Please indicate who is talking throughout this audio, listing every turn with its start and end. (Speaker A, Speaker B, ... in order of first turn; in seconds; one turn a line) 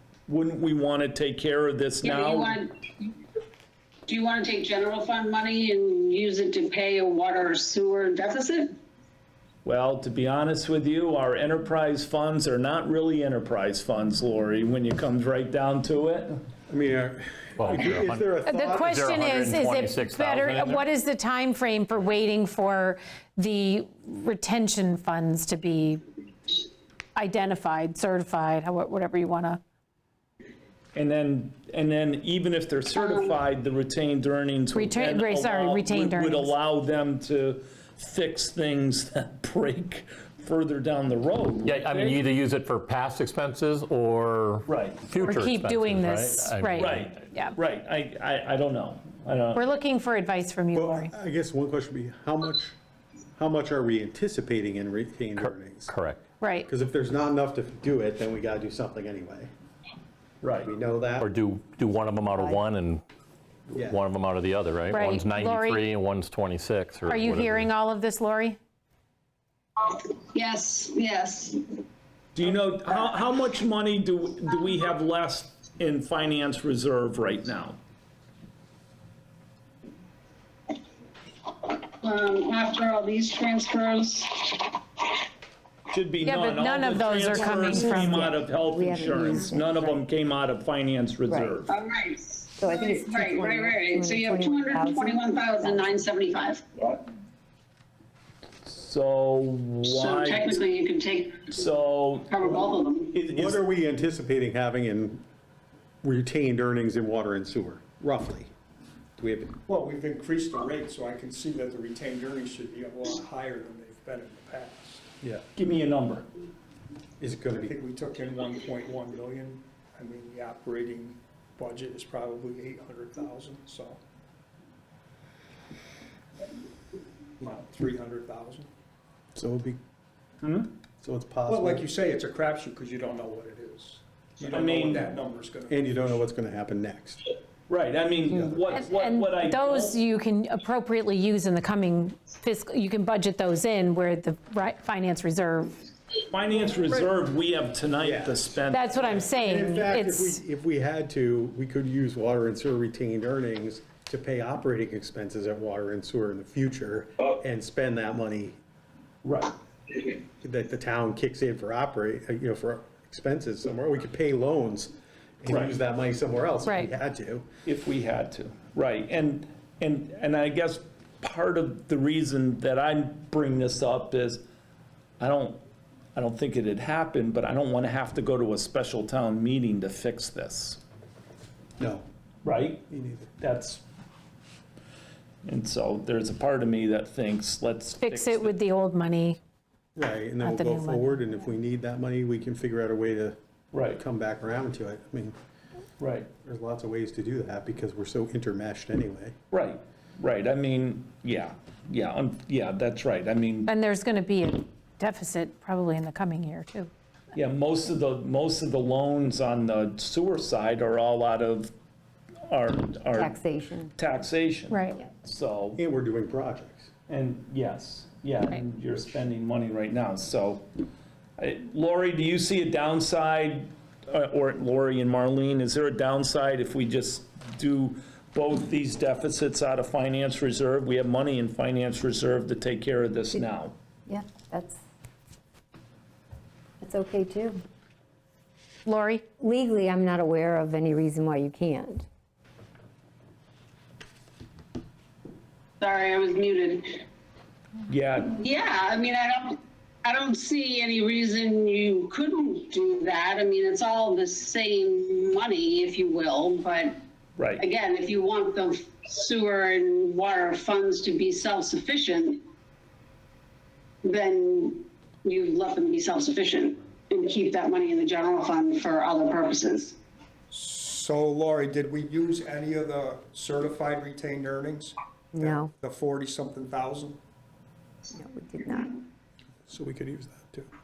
Speaker A: 0.3-2.6
Speaker B: 2.0-3.1
Speaker B: 4.1-8.8
Speaker A: 9.7-16.4
Speaker C: 16.7-19.1
Speaker D: 17.6-20.9
Speaker E: 18.5-26.0
Speaker E: 27.2-29.6
Speaker A: 30.9-42.2
Speaker B: 33.0-33.4
Speaker E: 34.7-36.5
Speaker D: 41.6-47.2
Speaker A: 44.7-45.0
Speaker E: 45.2-47.5
Speaker A: 46.8-49.7
Speaker E: 49.5-51.1
Speaker C: 50.7-52.8
Speaker C: 53.4-55.9
Speaker D: 55.4-56.2
Speaker E: 56.4-56.7
Speaker C: 56.7-59.5
Speaker A: 60.4-60.7
Speaker C: 60.6-61.3
Speaker D: 61.2-63.0
Speaker C: 63.7-64.0
Speaker D: 63.7-67.7
Speaker E: 64.9-65.8
Speaker E: 67.1-68.6
Speaker B: 69.8-71.6
Speaker A: 72.3-77.8
Speaker B: 82.0-84.8
Speaker A: 85.9-91.8
Speaker E: 86.2-88.2
Speaker F: 87.3-90.0
Speaker F: 91.3-91.6
Speaker B: 91.7-97.0
Speaker F: 92.6-96.0
Speaker A: 98.7-100.6
Speaker B: 99.8-101.6
Speaker A: 101.5-103.6
Speaker B: 102.3-103.1
Speaker C: 103.3-105.2
Speaker C: 106.0-108.5
Speaker C: 109.2-109.6
Speaker G: 109.7-115.1
Speaker A: 115.5-116.3
Speaker C: 117.2-117.8
Speaker G: 117.6-124.0
Speaker G: 127.4-128.7
Speaker C: 129.3-129.8
Speaker A: 130.4-130.7
Speaker C: 131.0-131.8
Speaker G: 131.5-136.2
Speaker A: 134.4-135.1
Speaker C: 135.7-137.2
Speaker A: 137.7-140.0
Speaker C: 138.3-138.8
Speaker E: 138.9-145.8
Speaker A: 146.3-149.3
Speaker C: 148.0-158.6
Speaker E: 148.7-150.3
Speaker A: 159.2-159.6
Speaker C: 160.4-167.5
Speaker A: 165.5-165.8
Speaker A: 167.7-174.4
Speaker A: 175.2-175.6
Speaker A: 176.2-180.8
Speaker C: 181.8-182.1
Speaker A: 182.4-182.9
Speaker C: 182.9-183.3
Speaker A: 183.4-183.8
Speaker A: 185.4-188.6
Speaker E: 188.0-189.4
Speaker C: 190.0-193.4
Speaker E: 190.5-191.1
Speaker A: 193.7-194.0
Speaker C: 193.9-195.4
Speaker A: 196.0-196.3
Speaker C: 196.4-199.4
Speaker A: 199.5-203.7
Speaker E: 203.7-206.9
Speaker A: 207.3-211.7
Speaker A: 212.5-215.8
Speaker F: 213.2-213.9
Speaker E: 214.7-215.0
Speaker C: 215.8-216.9
Speaker A: 217.1-220.7
Speaker A: 221.4-233.7
Speaker F: 234.1-234.8
Speaker F: 236.8-237.6
Speaker E: 238.9-239.2
Speaker F: 239.4-242.1
Speaker B: 245.8-247.0
Speaker A: 247.9-248.4
Speaker B: 248.4-257.0
Speaker A: 257.4-257.6
Speaker B: 257.6-262.4
Speaker B: 264.0-270.0
Speaker G: 270.5-277.2
Speaker F: 275.3-275.7
Speaker F: 278.1-279.0
Speaker C: 279.7-280.7